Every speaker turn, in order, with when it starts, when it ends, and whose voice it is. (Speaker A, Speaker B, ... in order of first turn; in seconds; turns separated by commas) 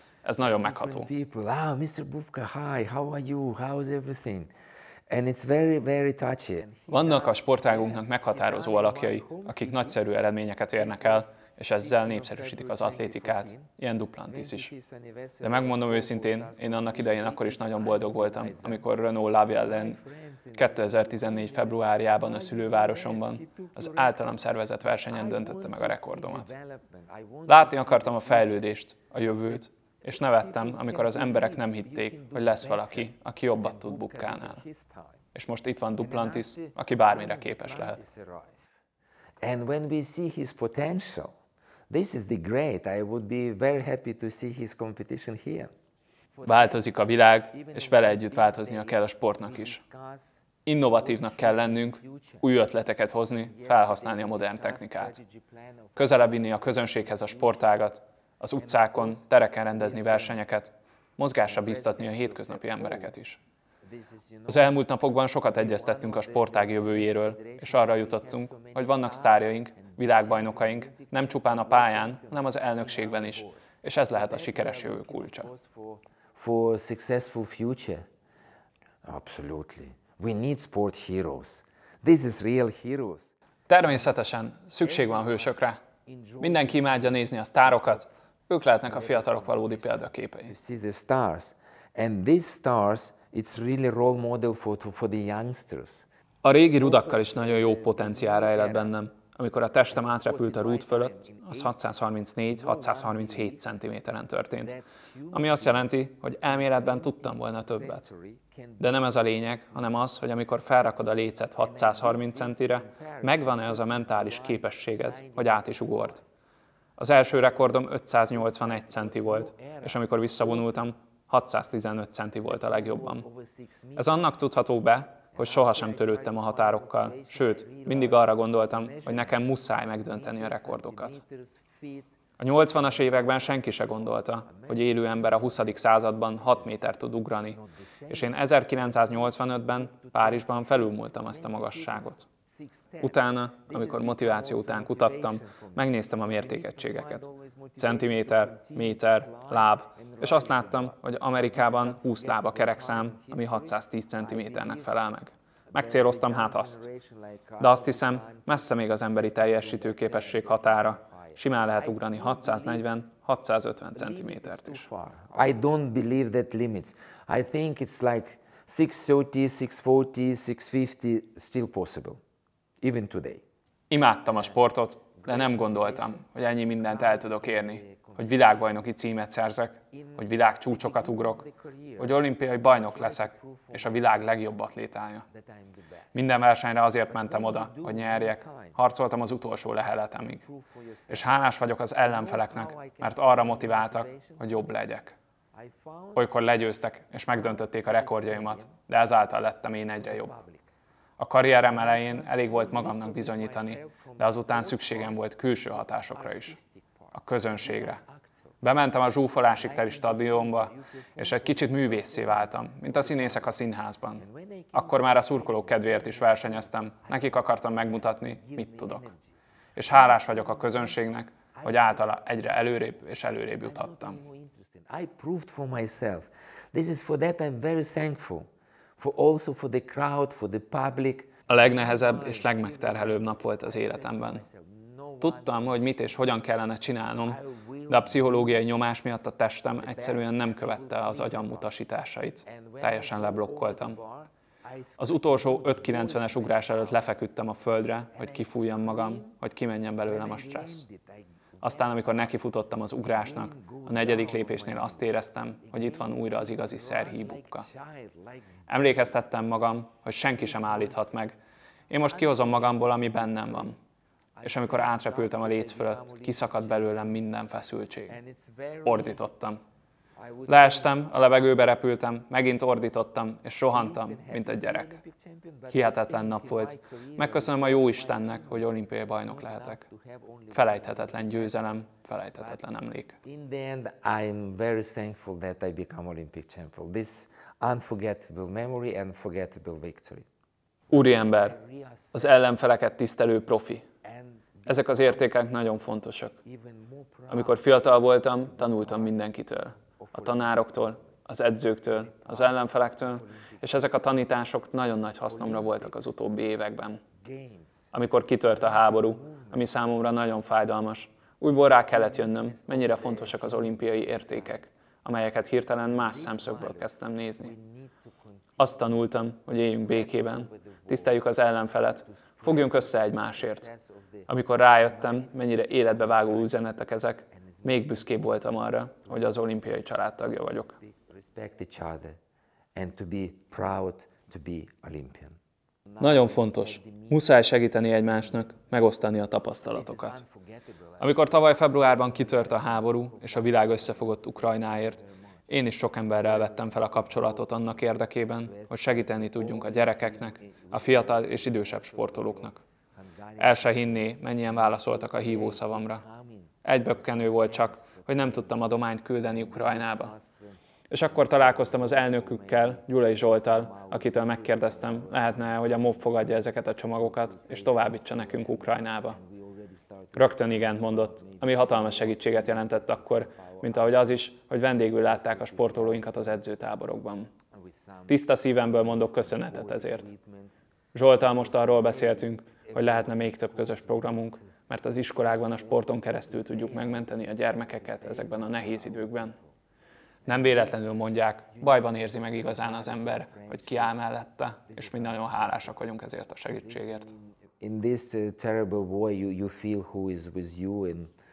Speaker A: 0.2-1.1, Speaker B: 0.4-4.5, Speaker B: 5.1-9.9, Speaker A: 6.9-14.7, Speaker B: 10.8-11.2, Speaker B: 11.8-13.7, Speaker B: 14.3-18.9, Speaker A: 15.4-20.0, Speaker B: 19.5-24.1, Speaker A: 20.5-26.5, Speaker B: 25.1-28.6, Speaker A: 27.5-34.6, Speaker B: 30.4-35.1, Speaker A: 35.3-38.0, Speaker B: 36.0-38.5, Speaker B: 39.4-41.3, Speaker B: 41.9-45.7, Speaker B: 46.4-46.7, Speaker A: 46.4-49.8, Speaker B: 47.5-50.4, Speaker A: 50.6-55.2, Speaker B: 51.0-52.4, Speaker B: 53.5-56.2, Speaker A: 56.0-63.4, Speaker B: 58.6-60.4, Speaker B: 61.5-63.1, Speaker B: 64.0-64.7, Speaker A: 64.5-75.5, Speaker B: 65.5-73.5, Speaker B: 74.2-78.1, Speaker B: 79.0-83.3, Speaker A: 83.7-85.8, Speaker B: 85.0-85.5, Speaker B: 86.1-87.2, Speaker A: 86.4-90.5, Speaker B: 88.9-96.1, Speaker A: 96.4-104.8, Speaker B: 96.9-98.9, Speaker B: 99.9-101.8, Speaker B: 102.5-103.6, Speaker B: 104.7-105.9, Speaker A: 105.3-108.1, Speaker B: 106.5-109.9, Speaker A: 108.8-116.2, Speaker B: 111.6-116.2, Speaker A: 117.0-123.2, Speaker B: 118.3-120.0, Speaker B: 122.6-124.4, Speaker A: 124.0-131.2, Speaker B: 125.3-132.1, Speaker A: 132.4-142.2, Speaker B: 132.8-133.6, Speaker B: 134.5-135.8, Speaker B: 136.4-136.8, Speaker B: 137.6-138.3, Speaker B: 138.9-139.3, Speaker B: 139.9-142.2, Speaker B: 142.8-143.2, Speaker A: 143.0-156.8, Speaker B: 143.7-154.9, Speaker B: 155.7-158.5, Speaker A: 157.6-164.9, Speaker B: 159.4-162.8, Speaker B: 163.9-172.2, Speaker B: 172.8-173.4, Speaker A: 173.9-181.4, Speaker B: 175.2-176.2, Speaker B: 176.9-178.6, Speaker B: 180.7-182.2, Speaker A: 182.0-185.2, Speaker B: 182.7-184.2, Speaker A: 186.1-190.4, Speaker B: 187.1-188.8, Speaker A: 191.1-195.2, Speaker B: 192.1-194.5, Speaker B: 195.6-196.2, Speaker A: 196.1-200.4, Speaker B: 197.5-198.7, Speaker B: 200.0-200.6, Speaker A: 201.2-206.6, Speaker B: 201.7-205.2, Speaker B: 206.0-208.1, Speaker A: 207.1-208.0, Speaker A: 208.6-219.1, Speaker B: 209.6-213.4, Speaker B: 214.2-217.4, Speaker B: 217.9-219.2, Speaker A: 219.8-224.2, Speaker B: 221.6-222.0, Speaker B: 223.6-235.8, Speaker A: 231.5-234.4, Speaker A: 235.2-244.0, Speaker B: 237.4-238.5, Speaker B: 239.8-241.7, Speaker B: 242.5-247.0, Speaker A: 245.0-250.9, Speaker B: 248.2-249.4, Speaker B: 250.1-251.1, Speaker A: 251.6-257.7, Speaker B: 251.7-252.1, Speaker B: 253.1-255.1, Speaker B: 255.6-258.4, Speaker A: 258.7-261.4, Speaker B: 260.4-261.1, Speaker A: 261.9-263.8, Speaker B: 262.1-263.7, Speaker B: 264.4-266.9, Speaker A: 264.4-268.2, Speaker B: 268.1-269.2, Speaker A: 268.8-269.6, Speaker B: 270.2-271.0, Speaker A: 270.4-275.0, Speaker B: 273.7-281.6, Speaker A: 275.7-279.8, Speaker A: 280.5-283.2, Speaker B: 282.4-282.6, Speaker B: 283.2-290.3, Speaker A: 290.9-291.6, Speaker B: 291.5-292.5, Speaker A: 292.1-293.9, Speaker B: 294.6-295.2, Speaker A: 294.6-296.4, Speaker B: 296.5-297.6, Speaker A: 297.3-307.0, Speaker B: 300.0-300.5, Speaker B: 303.1-304.0, Speaker B: 305.4-305.8, Speaker B: 307.2-307.6, Speaker A: 307.9-317.5, Speaker B: 309.2-309.5, Speaker B: 311.7-314.6, Speaker B: 315.9-318.2, Speaker A: 318.6-323.7, Speaker B: 319.9-321.1, Speaker B: 322.2-324.1, Speaker A: 324.3-330.8, Speaker B: 324.9-325.4, Speaker B: 327.6-328.2, Speaker B: 330.7-332.2, Speaker B: 332.7-335.4, Speaker A: 336.0-340.2, Speaker B: 336.2-337.0, Speaker B: 339.7-341.0, Speaker A: 341.0-352.6, Speaker B: 341.9-345.1, Speaker B: 346.2-347.8, Speaker B: 348.5-352.5, Speaker B: 353.2-358.5, Speaker A: 353.4-356.0, Speaker A: 356.6-360.1, Speaker B: 359.2-360.5, Speaker A: 360.9-369.2, Speaker B: 361.1-366.2, Speaker B: 367.0-373.9, Speaker A: 370.1-377.3, Speaker B: 375.1-376.1, Speaker B: 377.6-378.2, Speaker A: 378.1-380.1, Speaker B: 378.8-380.5, Speaker A: 380.9-389.4, Speaker B: 381.2-384.4, Speaker B: 385.2-389.3, Speaker A: 390.3-397.1, Speaker B: 390.3-390.9, Speaker B: 391.6-393.9, Speaker B: 394.7-395.7, Speaker B: 396.6-396.9, Speaker B: 397.6-401.1